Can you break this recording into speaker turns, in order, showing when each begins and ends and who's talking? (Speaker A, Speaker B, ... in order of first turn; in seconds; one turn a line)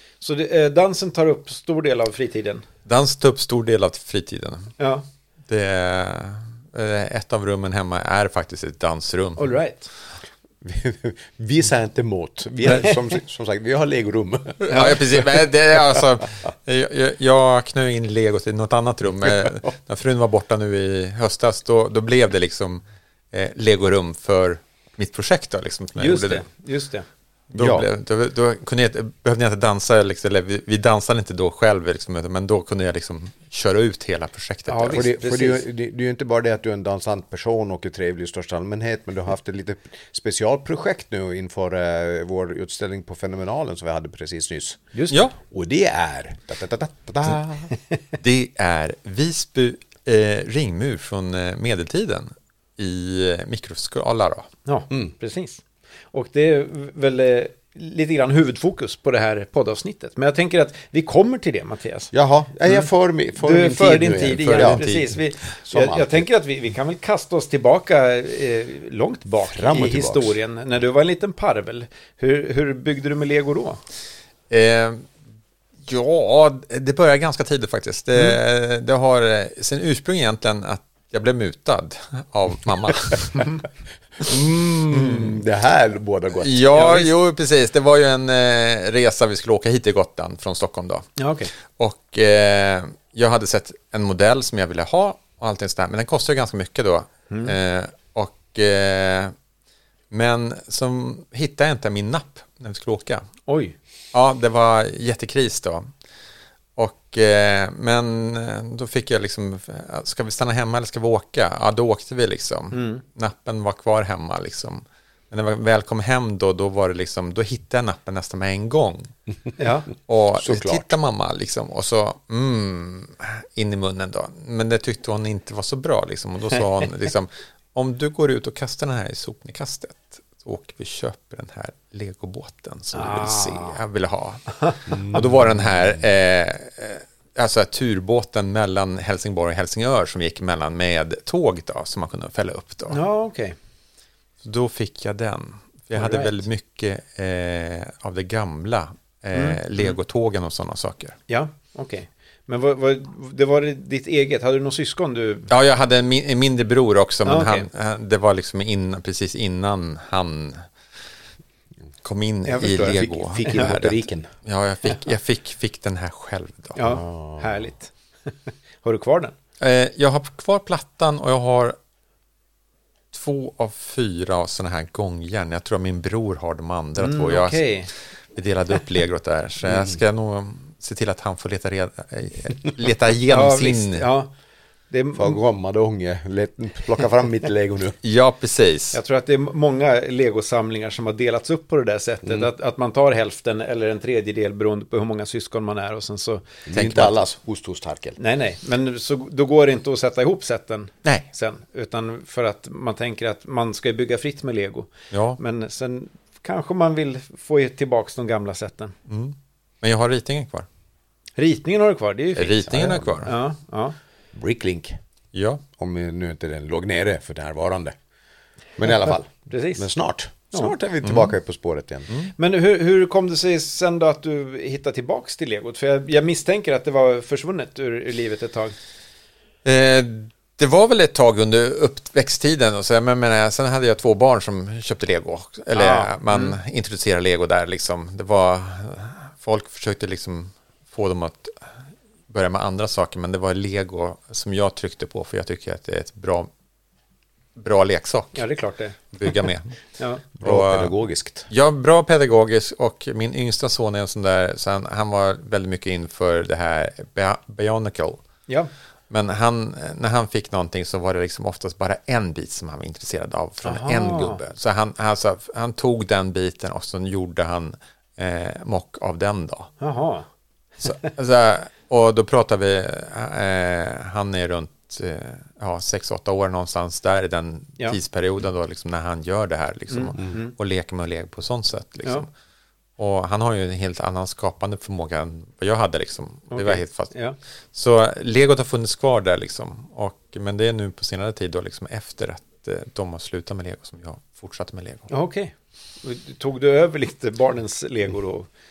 Speaker A: 0.2-2.6
Speaker B: 2.9-4.8
Speaker A: 4.8-5.1
Speaker B: 5.5-9.6
Speaker A: 9.4-9.9
Speaker C: 10.6-15.3
Speaker A: 12.7-13.0
Speaker B: 14.6-26.4
Speaker A: 14.7-15.0
Speaker A: 26.0-27.1
Speaker B: 27.5-35.1
Speaker C: 27.6-27.9
Speaker A: 34.7-35.6
Speaker C: 34.9-47.7
Speaker A: 44.9-45.2
Speaker B: 45.1-45.4
Speaker B: 48.2-54.5
Speaker A: 54.7-62.1
Speaker C: 62.1-64.9
Speaker A: 63.4-73.8
Speaker B: 64.3-65.1
Speaker C: 65.6-66.3
Speaker C: 69.4-70.4
Speaker B: 74.5-75.1
Speaker B: 75.8-83.5
Speaker C: 84.2-86.9
Speaker B: 84.3-85.4
Speaker B: 86.4-91.1
Speaker A: 86.7-87.1
Speaker A: 91.2-91.5
Speaker B: 91.8-99.3
Speaker A: 97.3-97.6
Speaker B: 100.1-103.3
Speaker A: 103.5-103.8
Speaker B: 104.1-105.9
Speaker B: 106.8-119.1
Speaker A: 112.7-113.0
Speaker A: 119.6-119.9
Speaker B: 120.1-143.0
Speaker C: 120.4-120.9
Speaker A: 132.9-133.8
Speaker C: 134.9-135.7
Speaker A: 142.9-143.6
Speaker B: 144.4-151.2
Speaker A: 145.9-146.4
Speaker A: 149.3-149.9
Speaker A: 151.3-155.5
Speaker B: 155.5-160.7
Speaker A: 157.2-157.7
Speaker B: 162.0-166.9
Speaker A: 162.5-163.7
Speaker C: 162.7-164.3
Speaker A: 166.8-169.3
Speaker C: 166.8-167.7
Speaker B: 169.6-171.8
Speaker B: 173.1-177.7
Speaker A: 177.0-177.9
Speaker B: 178.3-184.1
Speaker C: 179.7-180.0
Speaker A: 183.3-184.3
Speaker A: 184.9-185.4
Speaker C: 185.2-188.0
Speaker B: 188.0-189.0
Speaker A: 188.9-196.5
Speaker C: 196.7-198.2
Speaker B: 196.7-197.2
Speaker A: 198.2-208.9
Speaker B: 205.1-205.4
Speaker B: 209.1-210.7
Speaker A: 211.4-214.0
Speaker B: 212.4-213.3
Speaker C: 212.7-213.2
Speaker C: 214.3-215.0
Speaker B: 215.3-215.6
Speaker C: 215.8-218.0
Speaker C: 218.8-222.1
Speaker A: 219.5-219.9
Speaker B: 221.0-221.3
Speaker A: 222.4-228.8
Speaker B: 229.7-241.6
Speaker A: 235.7-236.6
Speaker B: 242.3-246.5
Speaker B: 247.6-248.4
Speaker A: 248.3-249.3
Speaker B: 249.1-249.7
Speaker A: 250.0-250.2
Speaker B: 250.4-250.9
Speaker C: 250.4-251.5
Speaker B: 251.5-258.2
Speaker B: 259.1-269.7
Speaker A: 263.6-264.4
Speaker A: 269.8-270.3
Speaker B: 270.8-282.3
Speaker A: 279.9-280.5
Speaker B: 283.0-287.1
Speaker A: 286.5-287.4
Speaker B: 287.7-295.1
Speaker A: 295.1-298.5